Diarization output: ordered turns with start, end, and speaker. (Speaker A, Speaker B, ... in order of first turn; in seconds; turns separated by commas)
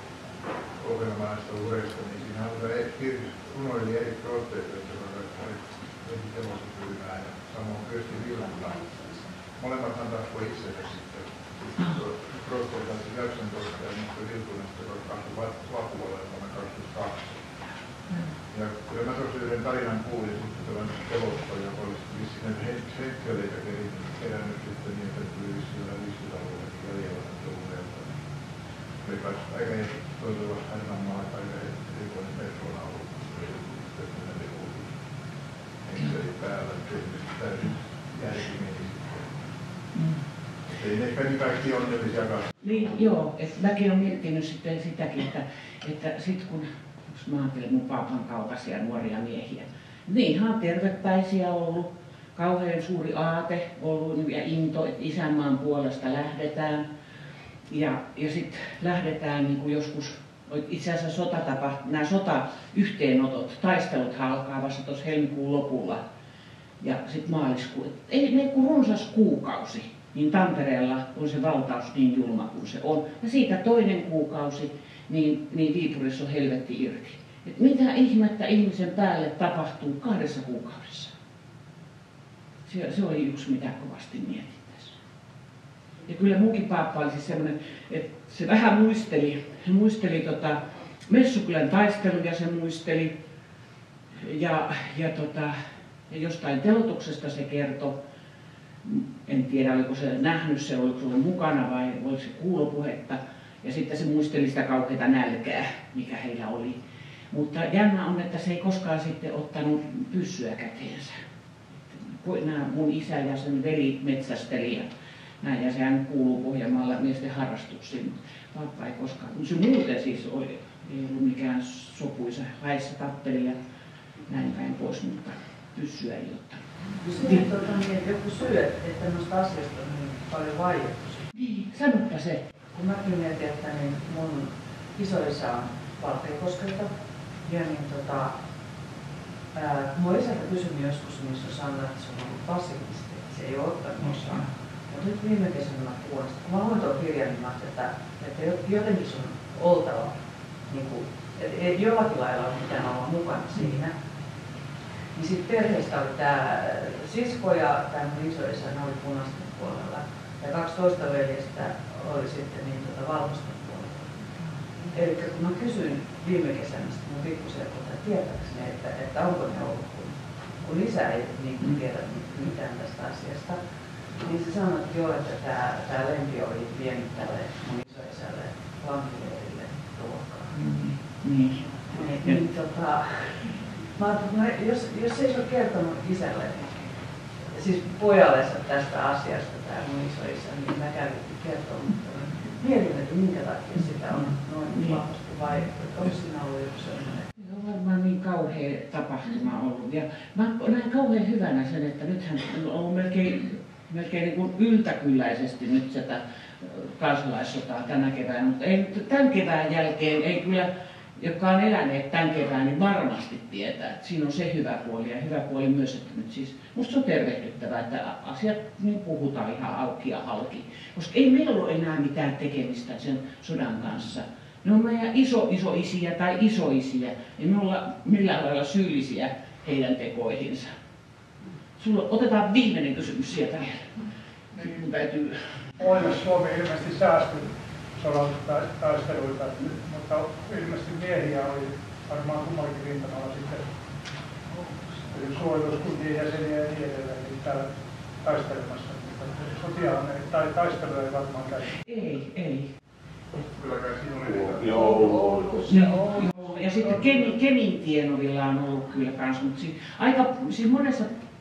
Speaker A: 0.8-17.3, Speaker A: 18.5-28.1, Speaker A: 29.0-34.9, Speaker A: 35.8-39.4, Speaker B: 39.9-40.2, Speaker A: 40.8-42.5, Speaker B: 42.6-56.8, Speaker B: 57.7-66.0, Speaker B: 66.8-81.1, Speaker B: 82.7-85.0, Speaker B: 86.0-93.1, Speaker B: 94.2-95.6, Speaker B: 96.1-97.9, Speaker B: 98.8-106.8, Speaker B: 107.3-111.2, Speaker B: 111.9-114.9, Speaker B: 115.4-123.6, Speaker B: 124.3-126.6, Speaker C: 127.0-131.2, Speaker B: 131.3-132.5, Speaker C: 132.7-136.9, Speaker C: 137.4-138.3, Speaker C: 139.5-150.2, Speaker C: 150.7-153.9, Speaker C: 155.1-164.2, Speaker C: 164.9-173.6, Speaker C: 174.2-180.6, Speaker B: 180.5-182.4, Speaker C: 181.9-186.9, Speaker C: 187.5-197.3, Speaker B: 197.3-230.7, Speaker B: 231.8-233.9, Speaker B: 234.5-235.4, Speaker D: 235.8-243.7, Speaker D: 245.1-247.7, Speaker D: 248.2-251.7, Speaker B: 251.8-252.7, Speaker A: 253.3-255.5, Speaker D: 254.7-257.3, Speaker B: 255.7-261.1